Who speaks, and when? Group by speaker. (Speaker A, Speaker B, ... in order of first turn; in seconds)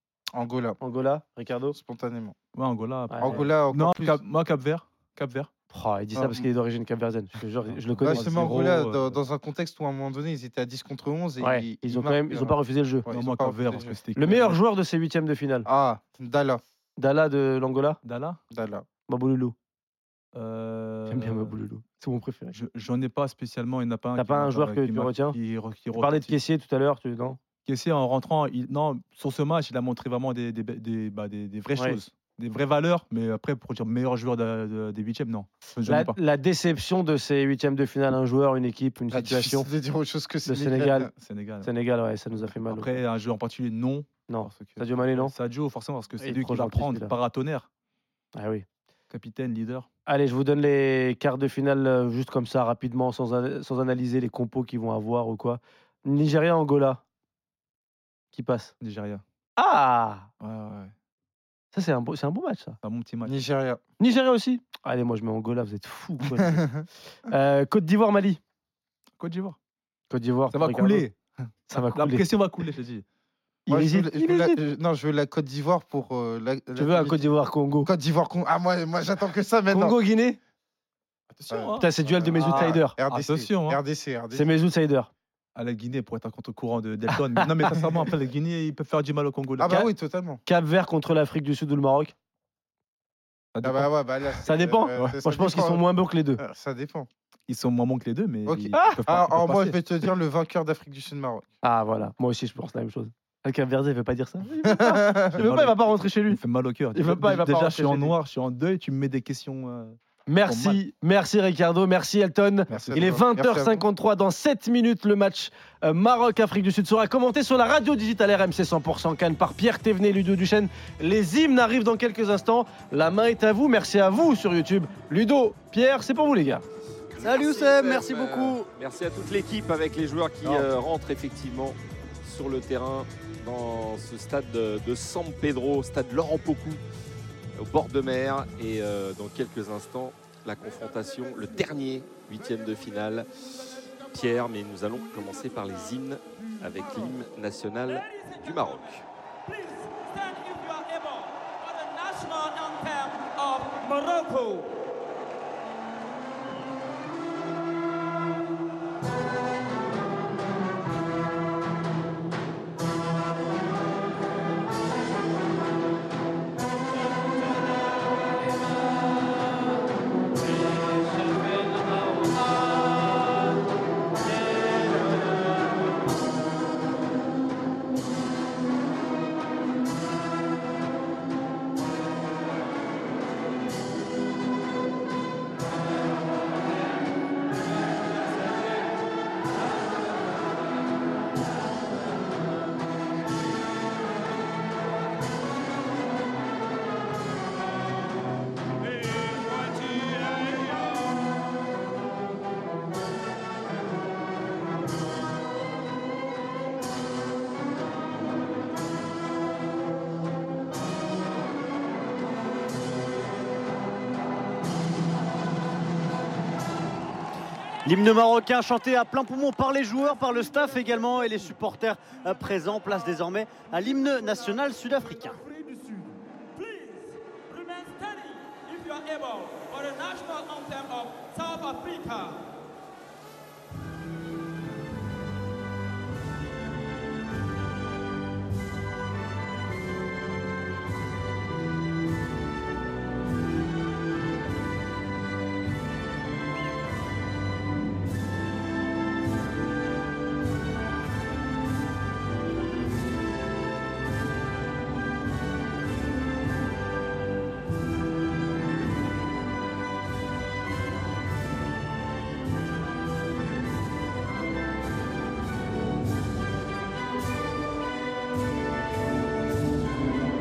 Speaker A: 0.3-0.8, 1.7-2.4, 3.2-4.2, 6.2-6.5, 8.1-12.6, 13.1-14.0, 15.7-16.6, 18.5-18.9, 39.1-41.1, 63.2-63.8, 66.4-66.9, 73.7-77.3, 77.8-80.0, 81.5-84.5, 89.6-90.4, 93.6-95.8, 96.4-97.1, 98.5-101.5, 104.7-105.4, 112.7-113.9
Speaker B: 0.8-1.8, 3.1-3.5, 5.7-8.3, 11.4-13.1, 14.2-15.7, 17.0-18.0, 19.1-19.6, 21.1-22.6, 24.2-25.4, 25.9-27.4, 35.8-39.7, 40.5-41.1, 41.6-43.0, 44.3-45.3, 46.2-47.1, 48.4-48.6, 50.1-57.0, 58.3-58.7, 59.6-60.3, 61.7-62.8, 64.0-66.6, 67.3-68.4, 70.1-71.1, 71.7-72.3, 73.7-74.6, 76.8-77.9, 79.7-80.4, 81.8-83.0, 84.3-85.1, 87.2-87.6, 90.5-92.1, 94.5-96.4, 98.7-99.0, 101.6-106.4, 106.9-108.2, 110.3-126.6
Speaker C: 2.5-5.5, 7.7-9.2, 13.1-14.6, 18.0-18.4, 20.3-21.6, 22.5-26.4, 27.6-36.2, 41.1-41.7, 42.5-47.7, 49.1-49.9, 58.8-59.2, 60.4-60.9, 62.8-63.4, 69.2-69.6, 70.5-71.2, 71.7-73.0, 81.3-83.8, 85.5-89.7, 93.5-93.9, 97.5-99.8, 105.4-110.8, 112.7-113.1
Speaker D: 127.2-136.8, 137.6-143.3, 144.1-149.1
Speaker E: 127.2-128.7, 217.8-225.9, 227.5-228.8, 229.5-232.4
Speaker F: 149.5-154.7, 227.6-230.7, 231.4-231.8